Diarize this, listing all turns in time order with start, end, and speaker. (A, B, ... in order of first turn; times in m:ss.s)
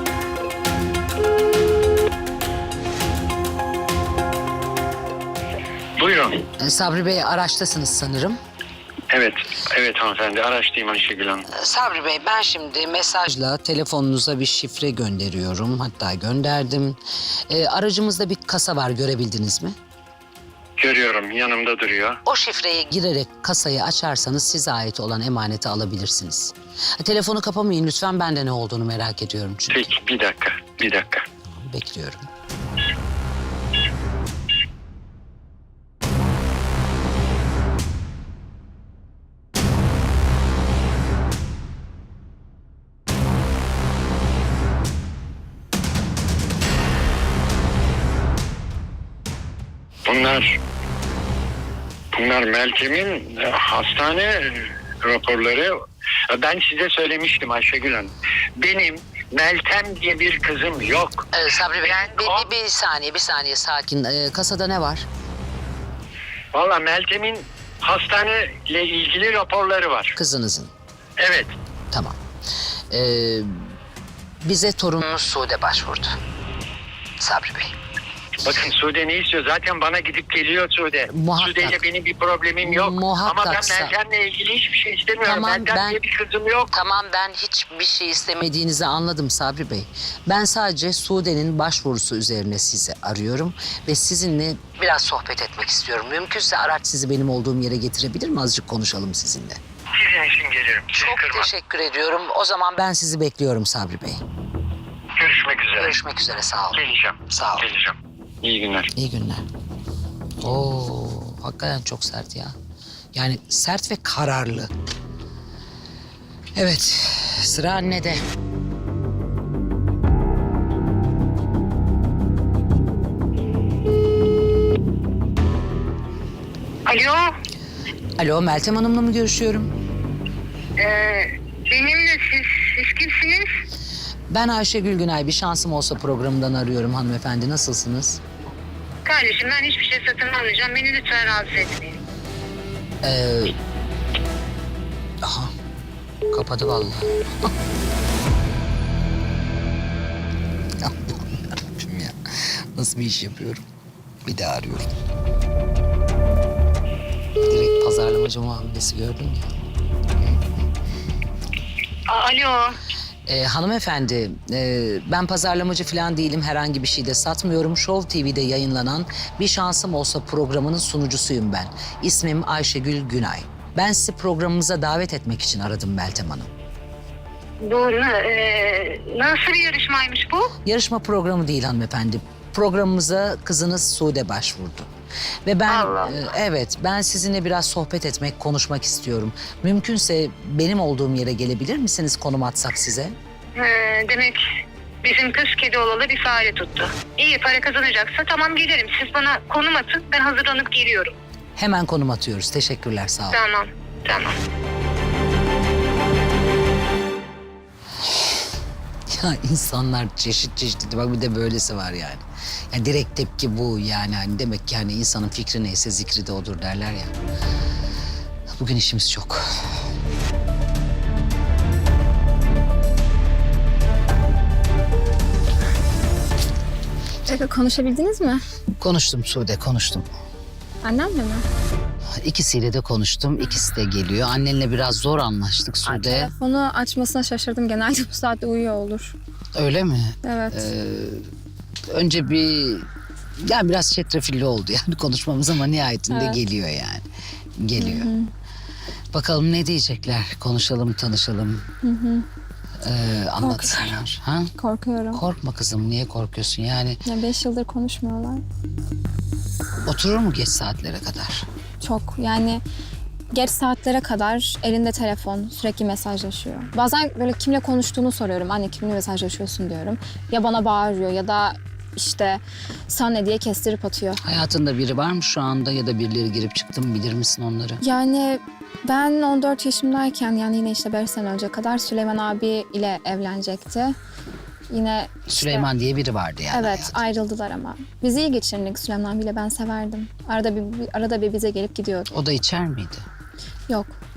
0:06.0-0:06.4 A
0:06.6-0:08.4 B
0:09.1-0:11.5 A
0:11.5-0:19.8 B
0:20.8-0:22.2 A
0:22.3-0:29.9 B
0:29.7-0:31.2 A
0:31.5-0:32.3 B
0:50.1-0:50.6 A
0:52.1-0:55.8 A
0:56.3-1:01.3 A
1:01.3-1:05.1 B
1:01.8-1:02.5 A
1:06.5-1:10.1 A
1:10.2-1:10.7 B
1:11.2-1:11.5 A
1:11.9-1:12.2 B
1:12.9-1:13.7 B
1:14.4-1:16.2 B
1:17.2-1:17.8 B
1:18.4-1:26.7 A
1:21.1-1:21.8 B
1:22.6-1:24.0 B
1:25.2-1:26.0 B
1:26.7-1:39.6 B
1:40.0-1:41.5 A
1:41.0-1:44.2 B
1:45.2-1:46.0 A
1:45.7-1:47.7 B
1:46.7-1:48.9 A
1:49.0-1:49.4 B
1:50.4-1:52.6 B
1:53.1-1:54.7 B
1:56.6-1:58.2 B
2:06.9-2:07.3 C
2:08.2-2:09.7 B
2:10.8-2:13.5 C
2:14.3-2:18.2 B
2:19.0-2:22.0 C
2:23.0-2:23.6 B
2:25.2-2:25.5 B
2:26.3-2:27.5 B
2:30.8-2:33.6 B
2:34.2-2:34.9 B
2:37.4-2:39.4 B
2:42.1-2:42.8 C
2:43.3-2:56.5 B
2:57.6-3:00.5 C
3:00.6-3:04.9 B
3:05.5-3:13.2 B
3:05.7-3:06.2 C
3:13.6-3:14.4 C
3:15.0-3:21.1 C
3:21.6-3:23.4 B
3:23.3-3:24.4 C
3:29.1-3:37.1 B
3:38.5-3:39.4 B
3:47.3-3:48.4 D
3:48.8-3:50.1 B
3:50.8-3:51.4 D
3:52.2-3:56.3 B
3:55.8-3:59.2 D
3:59.6-4:01.3 B
4:00.2-4:00.7 D
4:01.9-4:02.9 B
4:03.4-4:07.1 B
4:06.1-4:06.4 D
4:07.6-4:08.1 B
4:07.8-4:08.3 D
4:09.1-4:11.7 B
4:11.8-4:12.3 D
4:12.8-4:14.5 B
4:13.4-4:14.0 D
4:14.6-4:15.2 D
4:15.1-4:17.0 B
4:17.0-4:18.4 D
4:19.8-4:21.5 B
4:21.8-4:22.6 D
4:23.3-4:34.2 D
4:34.2-4:37.8 B
4:37.8-4:44.0 D
4:44.7-4:45.7 D
4:45.3-4:47.0 B
4:46.5-4:52.1 D
4:52.1-4:53.1 B
4:53.7-4:54.0 D